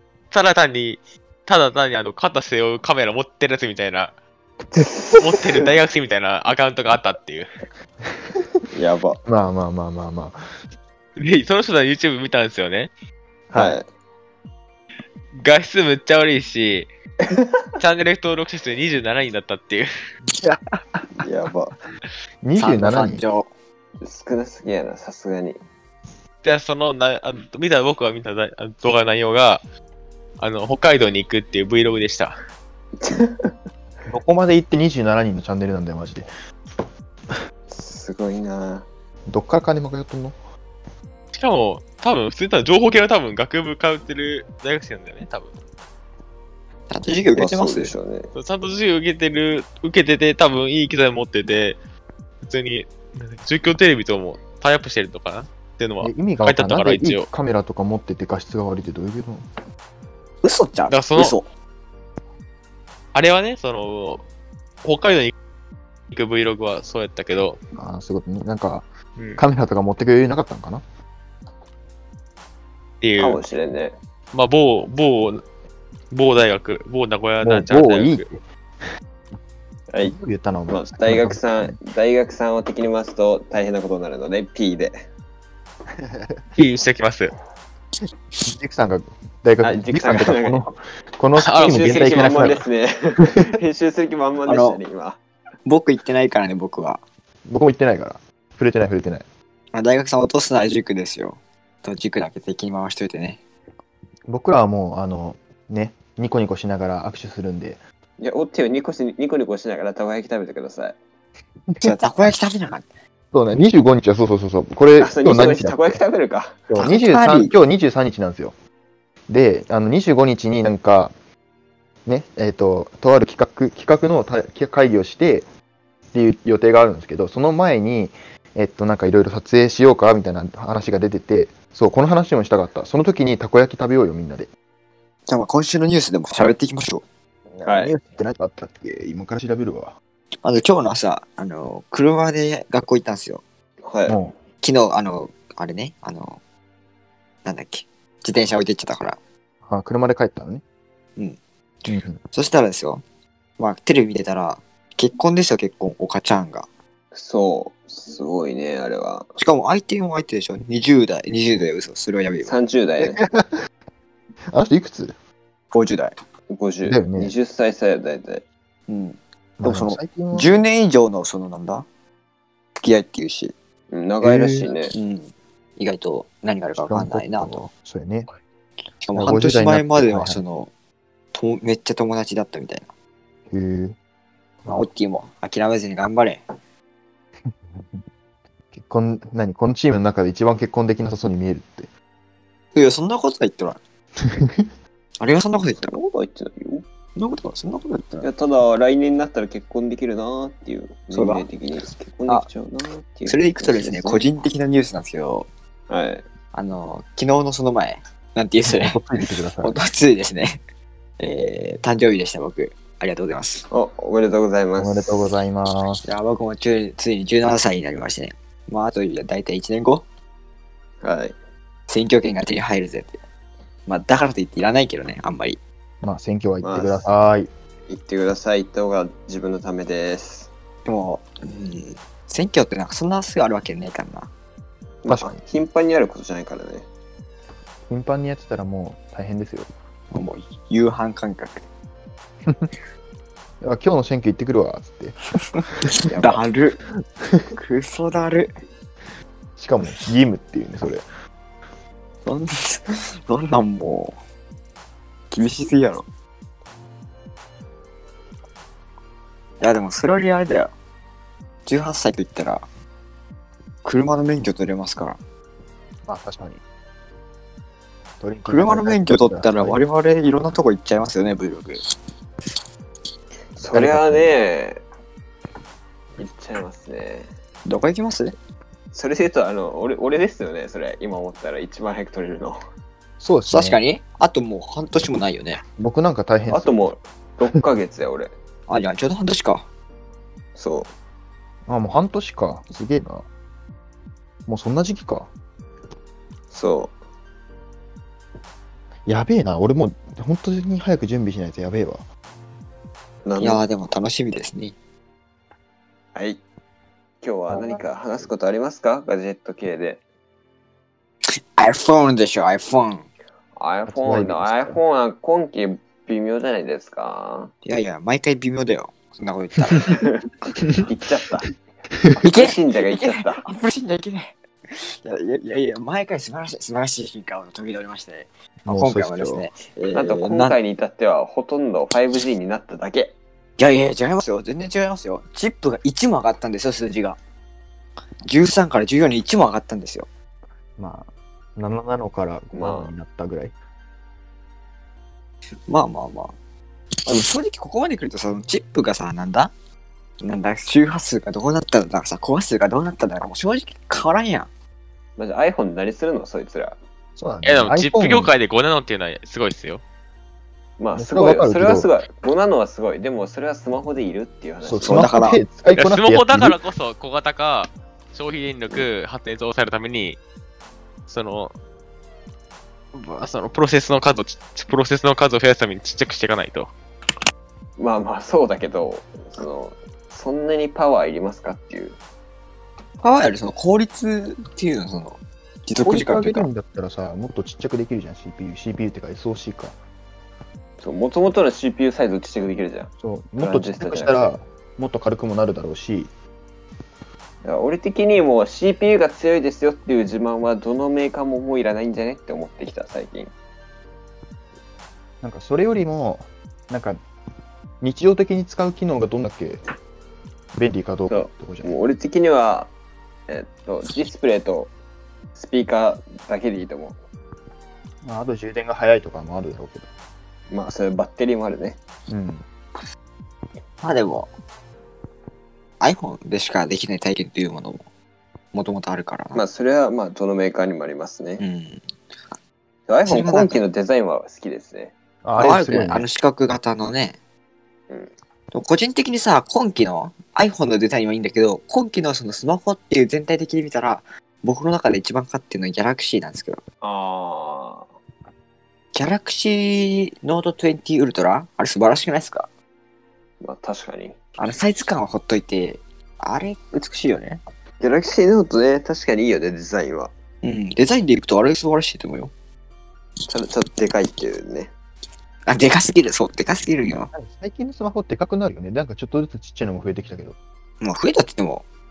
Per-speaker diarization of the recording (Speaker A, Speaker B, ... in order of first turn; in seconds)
Speaker A: 0.3-4.1, 5.2-7.5, 11.2-12.9, 15.4-16.9, 17.8-19.9, 26.4-29.6, 30.4-32.4, 41.3-45.5, 48.3-51.8, 52.4-57.3, 60.9-61.4, 63.1-64.2, 64.8-65.3, 66.1-67.6, 69.2-69.4, 73.0-73.4, 74.3-75.4, 76.1-78.2, 86.6-87.3, 91.4-92.7, 357.4-359.8, 365.8-370.2, 371.1-371.6, 372.9-376.7
Speaker B: 4.7-5.4, 8.7-9.2, 13.5-13.9, 21.2-21.8, 24.0-25.6, 33.0-33.5, 37.7-38.9, 47.4-48.3, 73.2-74.0, 79.9-80.2, 80.7-85.0, 89.6-90.7, 91.5-95.2, 108.2-111.0, 115.0-116.7, 137.7-137.9, 143.8-144.2, 157.1-159.3, 162.4-163.2, 166.5-168.4, 173.9-174.9, 195.8-196.8, 198.2-204.2, 205.9-206.2, 213.7-215.2, 221.0-221.4, 226.6-227.1, 227.9-230.5, 235.0-236.9, 246.1-246.4, 273.6-274.8, 276.2-277.3, 278.9-282.6, 286.5-288.3, 290.6-290.9, 296.5-297.0, 303.2-303.6, 306.1-306.4, 307.2-310.0, 313.6-317.5, 320.8-321.5, 322.2-323.4, 329.9-333.1, 342.5-342.9, 355.2-356.8, 360.8-365.1, 377.8-382.0, 390.8-394.3, 397.4-403.3, 411.1-412.7, 413.3-414.7, 415.4-417.0, 420.5-421.8, 429.3-431.4, 432.9-434.9, 446.8-447.9, 453.4-454.2, 457.8-460.1, 463.3-464.7
Speaker C: 9.3-10.4, 13.5-13.8, 20.4-21.2, 22.4-23.2, 34.1-36.3, 39.3-40.4, 56.0-59.5, 67.8-68.9, 69.4-70.8, 77.4-78.4, 80.0-81.8, 86.0-86.4, 88.5-92.6, 93.2-93.5, 97.5-99.2, 104.3-107.8, 111.7-112.0, 113.3-116.0, 116.7-118.5, 119.3-121.1, 122.1-125.5, 126.1-134.5, 137.5-139.9, 144.1-144.3, 149.7-150.6, 151.9-152.2, 163.0-163.5, 164.5-165.1, 166.9-167.3, 169.6-170.6, 174.2-174.7, 176.8-178.3, 179.2-180.4, 183.5-184.0, 187.8-188.0, 188.7-191.9, 194.3-194.7, 208.7-209.8, 214.8-216.0, 226.0-227.5, 235.1-235.4, 237.9-239.7, 243.6-245.2, 249.6-251.1, 266.1-266.6, 268.2-269.8, 273.6-274.4, 283.2-283.8, 285.8-286.9, 291.7-293.3, 294.5-295.3, 299.1-302.1, 307.5-308.3, 313.9-314.8, 328.6-329.5, 340.8-343.5, 357.2-358.3, 360.9-361.9, 364.6-366.6, 385.8-389.8, 393.0-396.1, 405.2-407.0, 407.8-409.6, 410.6-411.8, 418.0-419.9, 422.1-422.5, 435.2-436.1, 467.1-470.4
Speaker D: 22.6-23.5, 46.9-47.9, 60.4-61.5, 94.5-94.8, 95.7-97.0, 99.7-103.4, 111.8-112.9, 116.8-117.5, 135.3-137.0, 140.4-143.4, 144.6-146.4, 147.4-149.2, 151.2-153.0, 153.6-156.7, 159.4-162.6, 165.7-166.1, 168.9-171.9, 172.8-173.5, 174.9-177.7, 179.0-180.7, 181.3-182.9, 184.7-186.4, 192.8-193.8, 195.2-195.9, 197.2-198.3, 201.1-201.5, 203.3-205.5, 206.5-209.1, 209.6-210.6, 211.2-213.7, 216.1-220.1, 221.9-223.2, 223.9-225.6, 230.8-234.3, 240.1-241.7, 245.6-246.8, 247.6-248.5, 252.2-254.2, 255.3-256.1, 259.6-260.7, 261.7-262.7, 263.8-265.2, 268.5-271.8, 277.7-278.4, 283.5-285.6, 288.7-289.7, 303.4-304.8, 311.3-313.1, 317.6-320.1, 322.2-330.6, 333.6-337.2, 338.3-340.1, 345.7-346.3, 347.1-349.5, 350.2-354.5, 364.8-365.4, 383.0-386.5, 423.8-424.3, 425.8-427.8, 428.5-429.4, 431.4-431.9, 433.1-433.6, 435.4-437.2, 438.5-446.6, 448.9-452.5, 454.4-457.4, 460.4-462.3, 465.5-467.1, 470.8-471.7